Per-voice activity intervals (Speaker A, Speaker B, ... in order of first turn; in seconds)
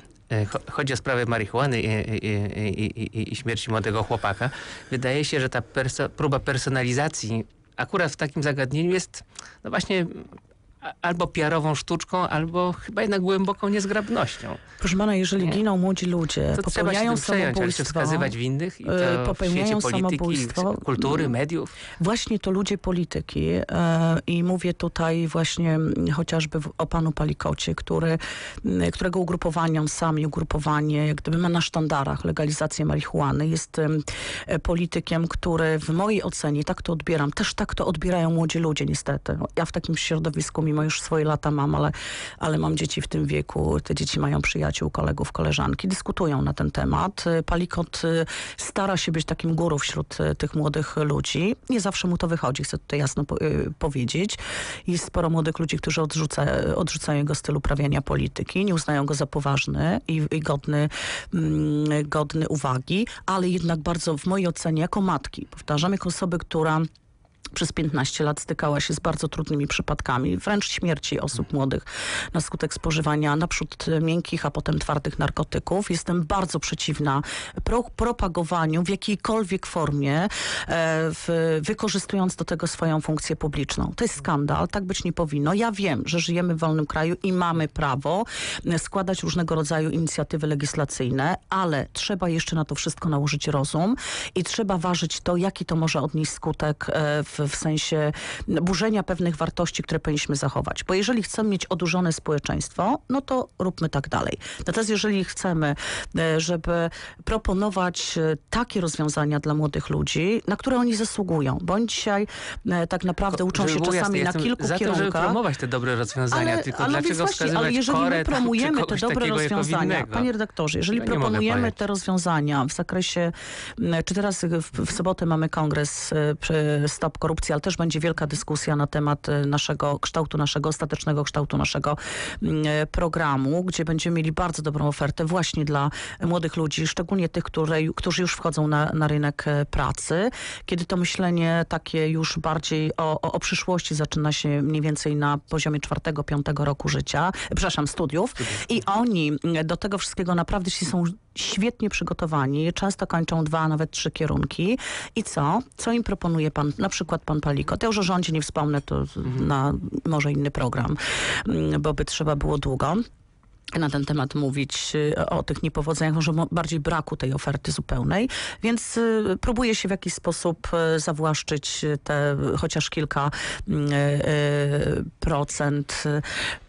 Speaker A: 0.3-10.3, 10.8-14.6, 16.5-21.8, 113.3-120.3, 120.9-121.7
Speaker B: 14.8-21.3, 22.0-66.8, 67.5-115.4, 116.3-163.0, 163.7-176.2